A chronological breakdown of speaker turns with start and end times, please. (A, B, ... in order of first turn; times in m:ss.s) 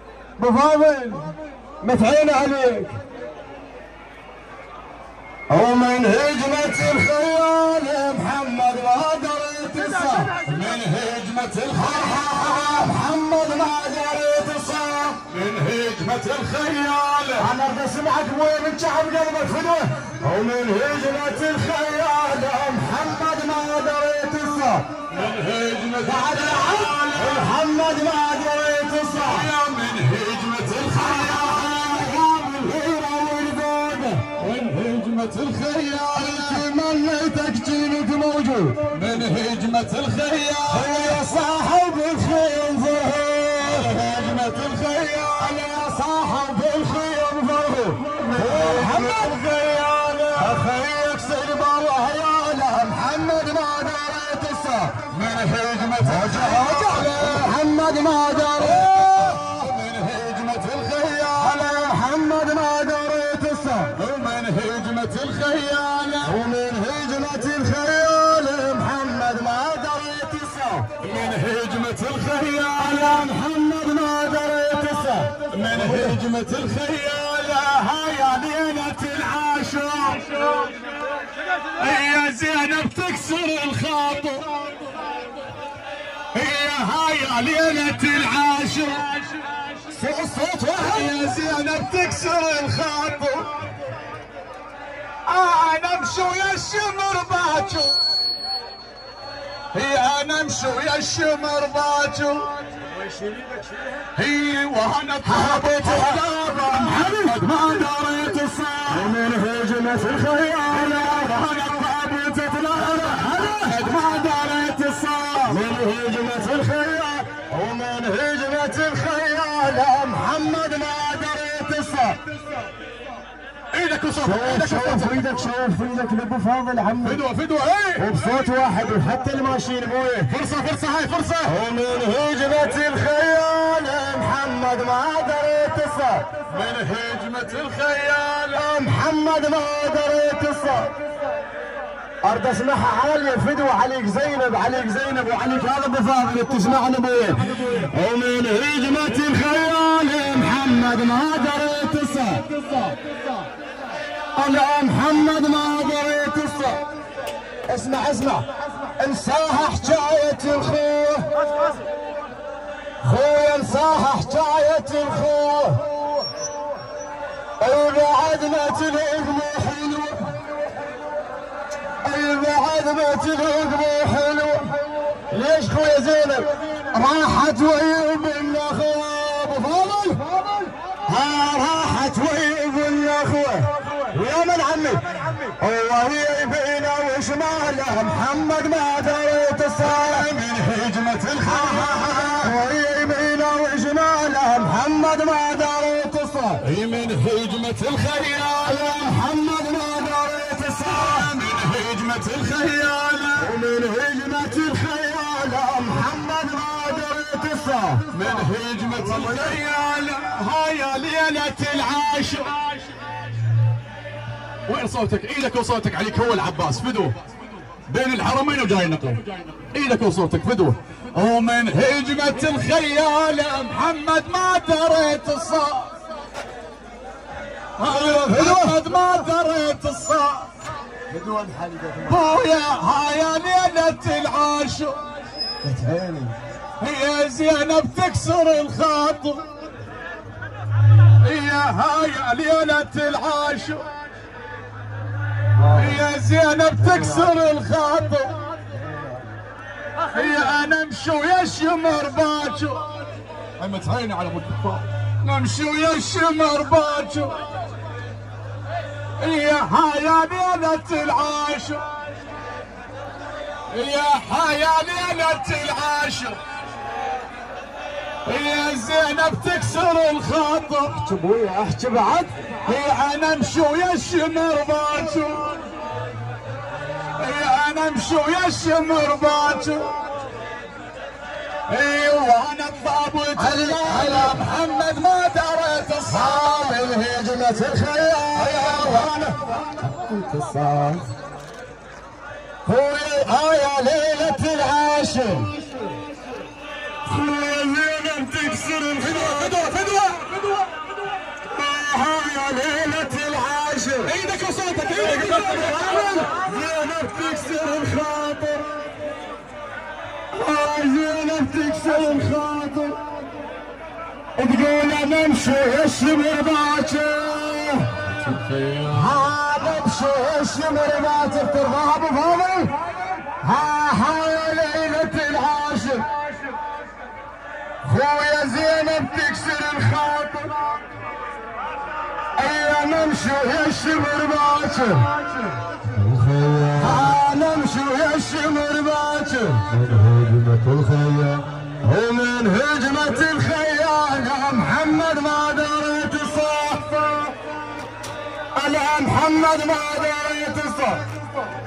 0:00.4-0:01.3 A
0:01.8-0:02.9 A
0:05.5-0:10.3 A
0:10.4-0:12.5 B
0:11.8-0:15.2 A
0:15.3-0:17.5 B
0:17.4-0:24.9 A
0:25.1-0:27.5 B
0:26.0-0:29.5 A
0:29.3-0:31.8 B
0:31.0-0:34.2 A
0:34.4-0:36.6 B
0:36.1-0:38.8 A
0:38.9-0:41.2 B
0:40.7-0:43.9 A
0:43.7-0:45.6 B
0:45.4-0:49.4 A
0:48.2-0:50.5 B
0:50.4-0:55.0 A
0:55.1-0:57.5 B
0:56.0-0:59.7 A
0:58.6-1:01.6 B
1:01.4-1:03.9 A
1:03.9-1:06.3 B
1:06.2-1:10.9 A
1:11.0-1:13.2 B
1:12.8-1:15.3 A
1:15.5-1:20.6 B
1:21.8-1:24.6 B
1:26.3-1:29.5 B
1:29.9-1:31.2 A
1:30.8-1:33.5 B
1:35.2-1:38.0 B
1:39.7-1:42.6 B
1:44.1-1:49.1 B
1:45.2-1:47.4 A
1:48.9-1:51.4 A
1:50.7-1:55.6 B
1:52.7-1:53.8 A
1:55.4-2:02.2 A
2:03.7-2:05.2 B
2:04.2-2:07.2 A
2:07.0-2:08.1 B
2:08.0-2:10.3 A
2:10.3-2:11.5 B
2:11.4-2:16.2 A
2:16.5-2:18.7 B
2:18.5-2:20.9 A
2:22.2-2:32.9 A
2:34.4-2:36.8 A
2:37.7-2:41.3 A
2:43.0-2:45.9 A
2:47.6-2:50.3 A
2:52.0-2:54.8 A
2:55.3-3:00.3 A
3:01.0-3:10.2 A
3:09.8-3:12.5 B
3:11.4-3:16.6 A
3:16.6-3:18.9 B
3:18.6-3:21.3 A
3:20.9-3:23.5 B
3:23.4-3:28.1 A
3:28.1-3:32.8 B
3:34.7-3:37.1 B
3:37.8-3:45.9 B
3:47.8-3:50.5 B
3:47.8-3:48.8 A
3:52.0-3:55.0 B
3:55.6-3:56.3 A
3:56.8-3:59.4 B
4:01.2-4:03.9 B
4:05.6-4:06.0 A
4:05.7-4:08.5 B
4:06.8-4:07.3 A
4:10.1-4:13.0 B
4:13.6-4:17.5 B
4:19.2-4:21.9 B
4:23.7-4:26.4 B
4:28.2-4:31.1 B
4:30.9-4:32.5 A
4:32.6-4:35.7 B
4:37.2-4:40.0 B
4:41.7-4:46.5 B
4:43.4-4:44.4 A
4:46.1-4:51.0 A
4:48.4-4:49.3 B
4:52.6-4:55.5 A
4:57.1-4:59.6 A
4:59.0-5:00.8 B
5:01.5-5:04.1 A
5:04.0-5:06.2 B
5:05.0-5:08.7 A
5:10.3-5:13.0 A
5:14.4-5:17.9 A
5:18.2-5:19.2 B
5:18.9-5:22.7 A
5:23.2-5:26.1 A
5:27.8-5:30.6 A
5:32.4-5:35.2 A
5:36.0-5:47.3 A
5:48.6-5:51.0 A